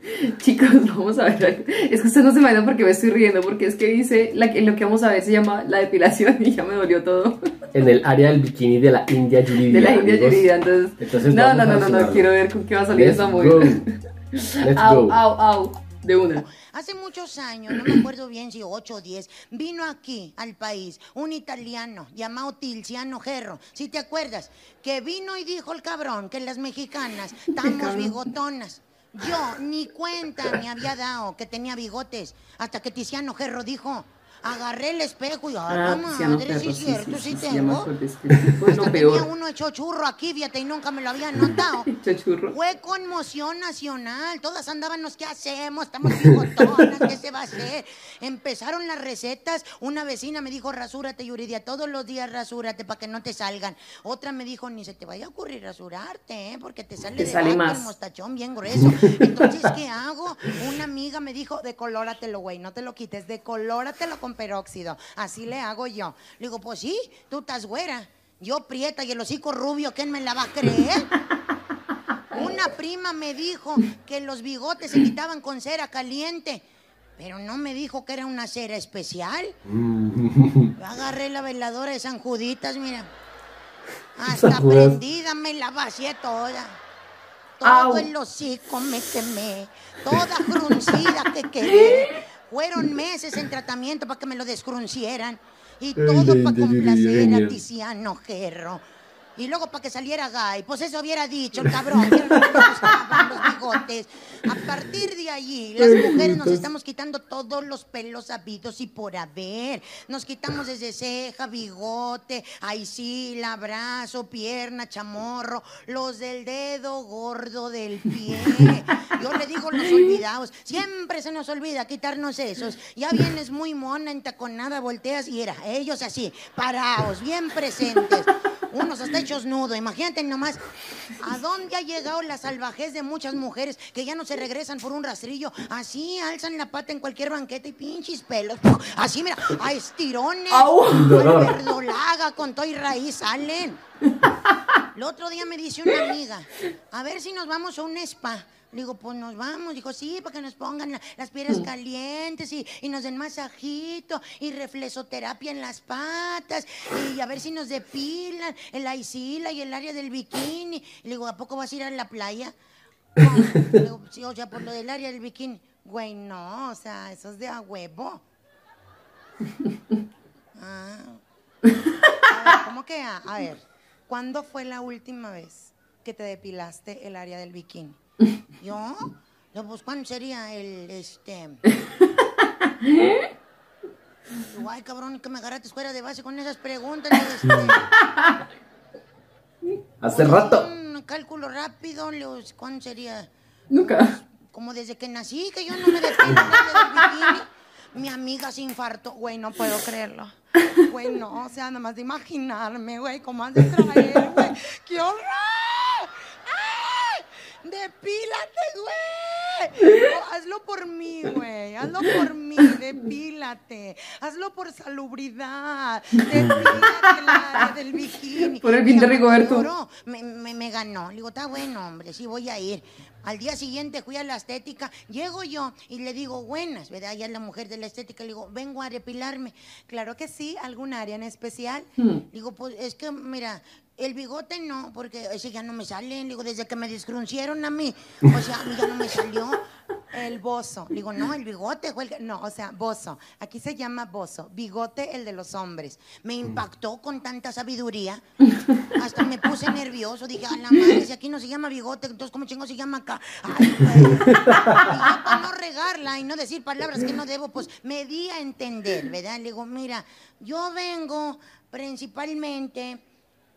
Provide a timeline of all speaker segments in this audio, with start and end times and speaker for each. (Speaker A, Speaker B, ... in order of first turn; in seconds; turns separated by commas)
Speaker A: 0.3-7.4, Speaker B: 7.7-10.4, Speaker A: 9.6-16.4, Speaker B: 11.0-12.3, Speaker B: 12.9-13.8, Speaker B: 14.6-15.2, Speaker C: 16.4-37.9, Speaker A: 27.5-28.2, Speaker A: 35.7-39.3, Speaker C: 38.7-41.9, Speaker A: 41.6-42.5, Speaker C: 42.5-71.1, Speaker A: 57.2-57.9, Speaker C: 72.3-76.6, Speaker C: 77.2-79.5, Speaker B: 79.7-80.7, Speaker C: 80.8-83.1, Speaker C: 84.2-86.8, Speaker B: 84.3-85.0, Speaker C: 87.6-98.8, Speaker A: 87.6-88.1, Speaker A: 91.7-92.1, Speaker B: 96.0-97.6, Speaker C: 99.4-130.6, Speaker B: 102.3-102.8, Speaker B: 105.8-106.6, Speaker C: 131.2-143.8, Speaker A: 140.5-141.3, Speaker B: 140.9-141.6, Speaker C: 144.9-162.5, Speaker C: 163.2-168.2, Speaker C: 170.6-171.2, Speaker C: 172.3-178.0, Speaker C: 178.6-181.6, Speaker A: 182.8-183.2, Speaker C: 184.4-187.8, Speaker B: 190.0-190.7, Speaker C: 190.1-239.6, Speaker A: 193.7-194.1, Speaker B: 196.2-196.5, Speaker B: 216.4-216.7, Speaker A: 218.6-219.7, Speaker C: 240.1-248.2, Speaker C: 248.9-263.0